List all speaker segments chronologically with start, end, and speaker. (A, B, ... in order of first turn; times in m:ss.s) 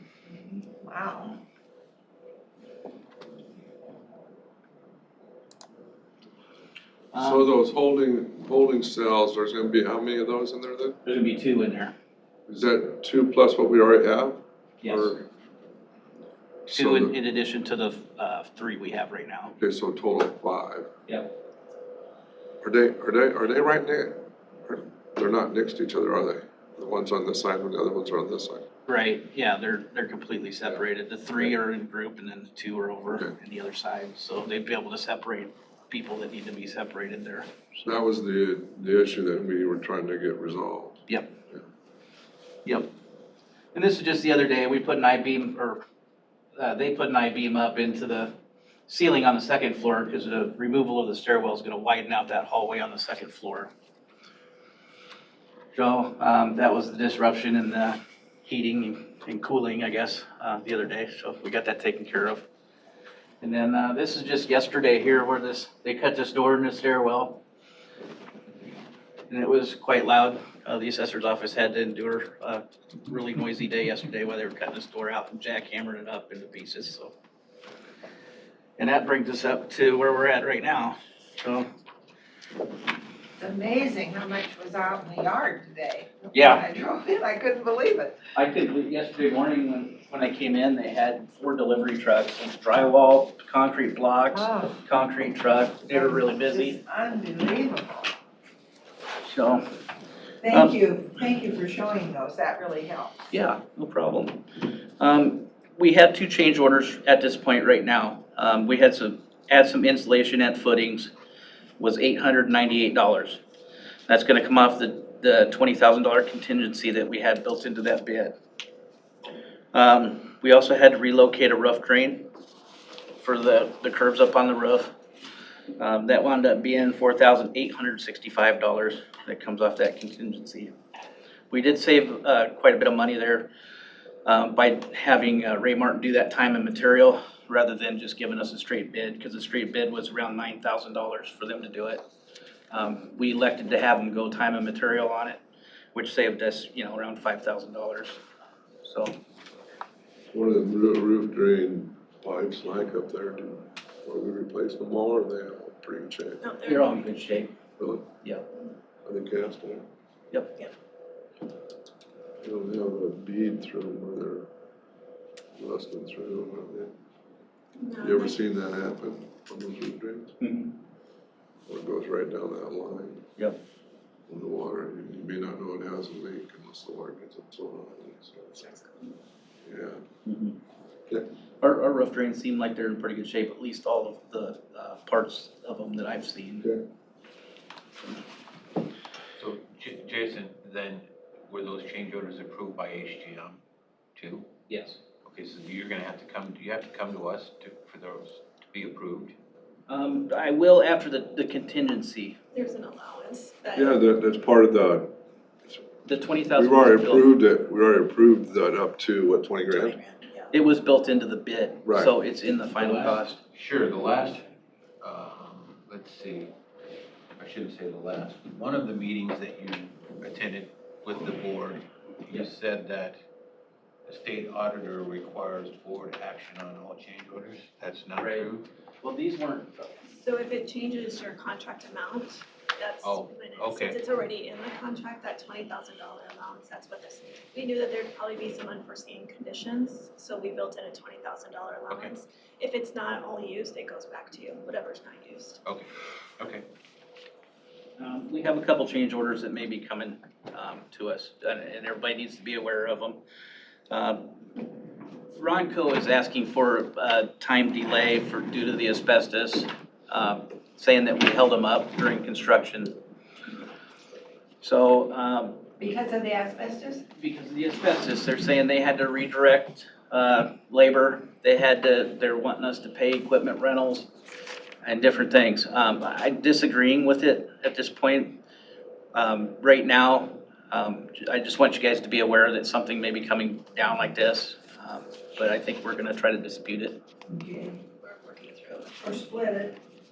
0:00.3-0:01.4 A
0:07.1-0:07.5 B
0:07.2-0:11.0 C
0:11.0-0:11.9 B
0:12.5-0:15.2 C
0:14.8-0:15.2 B
0:16.7-0:17.1 C
0:16.7-0:19.6 B
0:19.6-0:20.9 C
0:21.1-0:21.3 B
0:22.6-0:28.7 C
0:28.9-0:37.8 B
0:37.8-0:41.0 C
0:41.1-0:41.4 B
0:42.6-0:42.9 B
0:43.7-0:45.8 B
0:46.6-0:48.4 B
0:48.9-0:53.7 B
0:55.7-1:02.5 B
1:03.4-1:07.4 B
1:09.3-1:17.1 B
1:18.8-1:21.7 B
1:23.4-1:28.2 A
1:26.3-1:26.6 B
1:28.4-1:36.8 B
1:34.3-1:34.7 A
1:35.9-1:38.1 A
1:39.2-1:39.7 B
1:40.4-1:43.2 A
1:43.3-1:51.1 B
1:51.8-1:53.4 B
1:54.1-1:58.4 B
1:59.7-2:02.3 B
2:03.2-2:04.9 B
2:05.8-2:10.8 B
2:11.5-2:13.5 B
2:14.2-2:22.0 B
2:22.7-2:25.4 B
2:26.0-2:28.2 B
2:28.8-2:29.2 B
2:30.3-2:36.4 C
2:36.4-2:37.4 D
2:36.7-2:37.5 B
2:37.8-2:38.1 C
2:39.0-2:39.9 C
2:40.3-2:40.6 B
2:42.4-2:44.5 C
2:45.6-2:46.9 C
2:47.8-2:48.4 D
2:48.0-2:50.3 C
2:50.4-2:50.7 B
2:51.7-2:53.2 C
2:54.3-2:58.6 C
2:58.6-2:59.1 D
2:59.6-3:00.0 C
3:00.3-3:00.6 B
3:01.6-3:06.7 B
3:09.4-3:13.6 E
3:14.2-3:14.5 E
3:14.7-3:15.0 B
3:15.2-3:19.4 E
3:19.9-3:22.4 B
3:22.5-3:24.0 D
3:23.8-3:25.2 C
3:26.1-3:27.3 B
3:26.6-3:30.0 C
3:29.8-3:30.5 D
3:30.5-3:33.4 B
3:31.8-3:32.1 C
3:32.8-3:34.4 E
3:35.0-3:36.5 E
3:37.4-3:43.2 E
3:44.0-3:48.7 E
3:48.2-3:49.9 B
3:50.2-4:05.6 D
3:53.0-3:54.0 E
4:01.9-4:02.2 E
4:06.4-4:06.6 E
4:08.0-4:13.2 B
4:13.9-4:14.4 B
4:15.3-4:22.9 B
4:24.6-4:25.6 B
4:25.8-4:27.0 A
4:27.2-4:34.1 B
4:34.8-4:38.4 B
4:39.1-4:47.0 B
4:47.3-4:47.8 A
4:48.0-4:49.0 D
4:49.0-4:49.8 A